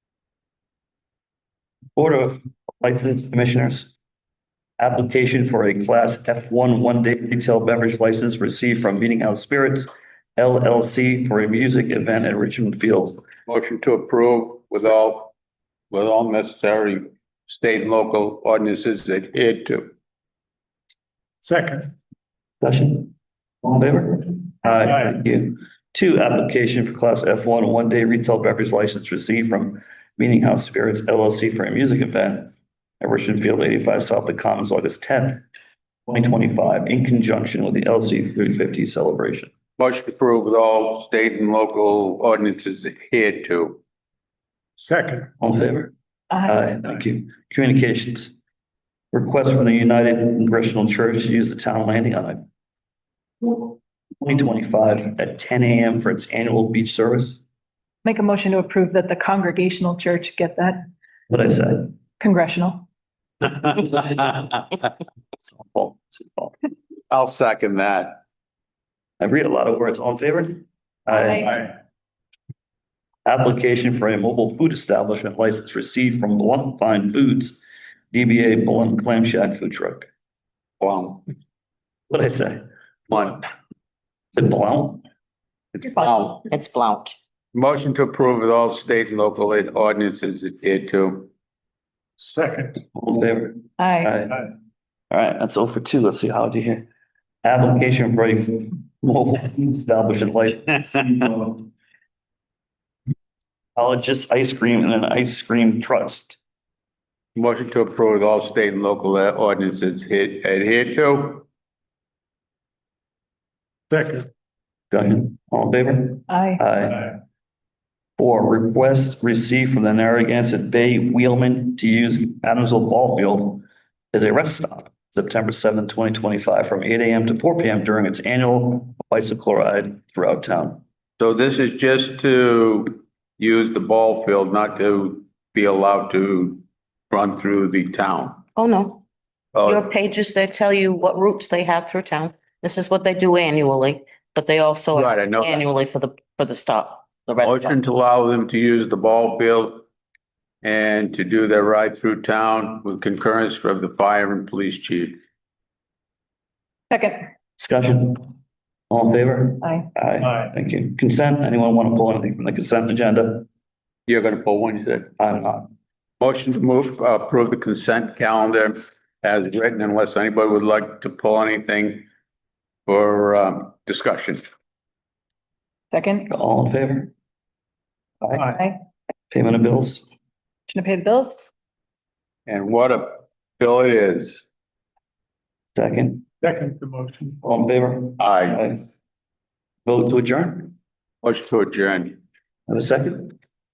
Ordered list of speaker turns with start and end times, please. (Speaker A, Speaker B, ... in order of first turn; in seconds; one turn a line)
Speaker A: 2.0-3.9
Speaker A: 4.8-13.2
Speaker B: 13.5-15.3
Speaker B: 15.9-19.9
Speaker C: 21.4-21.9
Speaker A: 22.6-23.1
Speaker A: 23.6-35.4
Speaker A: 36.1-39.5
Speaker B: 39.8-43.8
Speaker C: 44.8-45.3
Speaker A: 45.4-48.3
Speaker A: 49.1-52.4
Speaker A: 53.4-57.4
Speaker D: 58.0-60.9
Speaker A: 61.3-62.0
Speaker D: 62.2-62.9
Speaker A: 65.4-66.5
Speaker B: 67.1-68.2
Speaker A: 69.2-71.7
Speaker D: 71.1-71.4
Speaker A: 73.2-77.6
Speaker A: 78.1-80.1
Speaker B: 80.8-81.2
Speaker A: 82.1-82.7
Speaker B: 83.1-83.4
Speaker A: 84.3-85.0
Speaker B: 85.8-86.5
Speaker E: 86.0-87.2
Speaker B: 87.5-91.3
Speaker C: 92.2-92.7
Speaker A: 92.9-94.5
Speaker D: 93.8-94.1
Speaker A: 95.1-96.9
Speaker A: 97.4-101.7
Speaker A: 103.8-106.4
Speaker B: 107.4-111.5
Speaker C: 113.9-114.3
Speaker A: 114.9-117.2
Speaker D: 116.3-116.6
Speaker A: 118.2-130.8
Speaker B: 131.2-138.4
Speaker E: 138.6-139.0
Speaker B: 139.5-139.8
Speaker E: 139.6-147.8
Speaker B: 144.9-145.7
Speaker B: 147.4-149.8
Speaker B: 150.6-155.2
Speaker D: 156.9-157.3
Speaker A: 157.6-158.3
Speaker A: 158.9-163.5
Speaker D: 159.6-159.9
Speaker B: 164.1-165.1
Speaker A: 165.2-165.7
Speaker B: 166.2-172.1
Speaker B: 172.9-174.4
Speaker D: 175.9-176.3
Speaker A: 176.3-177.1
Speaker A: 178.2-178.6
Speaker A: 179.3-180.1
Speaker D: 180.7-181.5
Speaker B: 182.5-184.5
Speaker A: 185.8-186.3
Speaker C: 186.4-187.4
Speaker A: 187.4-188.8
Speaker B: 188.2-188.7
Speaker A: 189.9-190.7
Speaker B: 191.2-192.2
Speaker A: 192.7-193.3